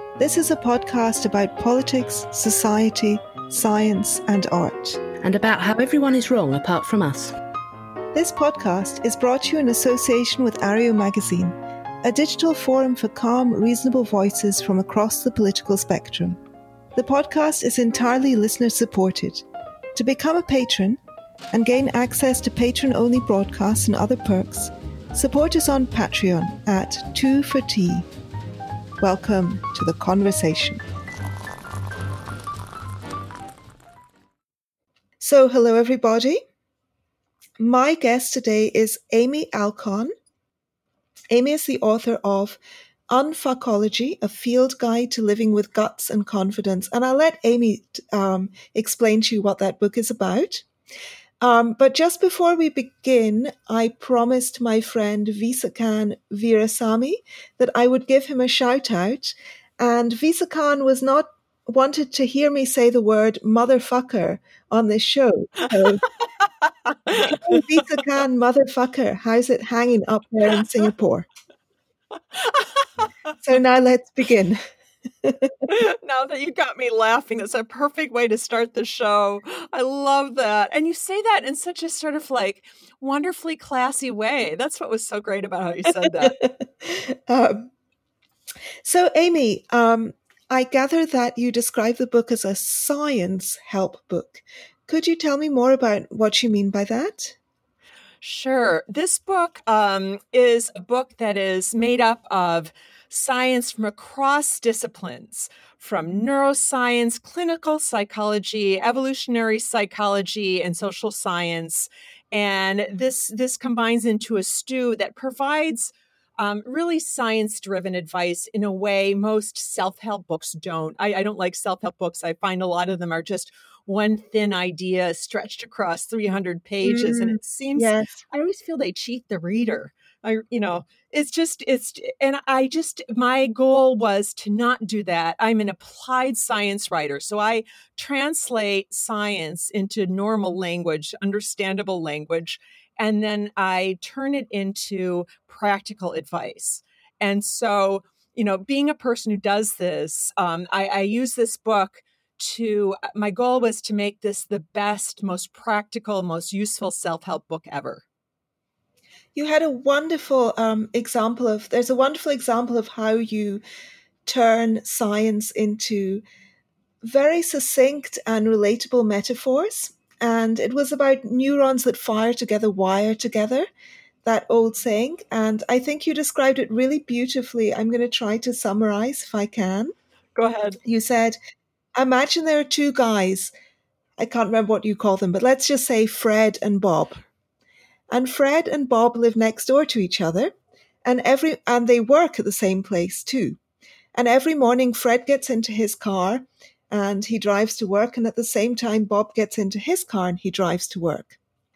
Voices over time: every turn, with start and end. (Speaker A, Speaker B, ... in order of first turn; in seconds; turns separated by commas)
Speaker A: 0.2-5.0, Speaker B: 5.2-7.3, Speaker A: 8.1-16.4, Speaker A: 16.9-21.0, Speaker A: 21.5-28.1, Speaker A: 29.0-30.8, Speaker A: 35.2-36.4, Speaker A: 37.6-40.1, Speaker A: 41.3-50.6, Speaker A: 51.4-66.1, Speaker C: 67.0-67.4, Speaker A: 67.2-71.3, Speaker A: 73.4-74.6, Speaker A: 75.2-75.7, Speaker C: 75.7-86.3, Speaker A: 86.1-87.7, Speaker A: 88.8-97.4, Speaker C: 98.2-158.0, Speaker A: 126.8-128.1, Speaker A: 159.3-163.6, Speaker A: 164.2-166.2, Speaker A: 167.0-173.7, Speaker A: 174.2-179.9, Speaker C: 180.3-180.8, Speaker A: 180.8-181.4, Speaker A: 181.9-183.5, Speaker A: 184.2-187.2, Speaker A: 188.1-190.5, Speaker A: 191.0-193.6, Speaker A: 194.1-201.3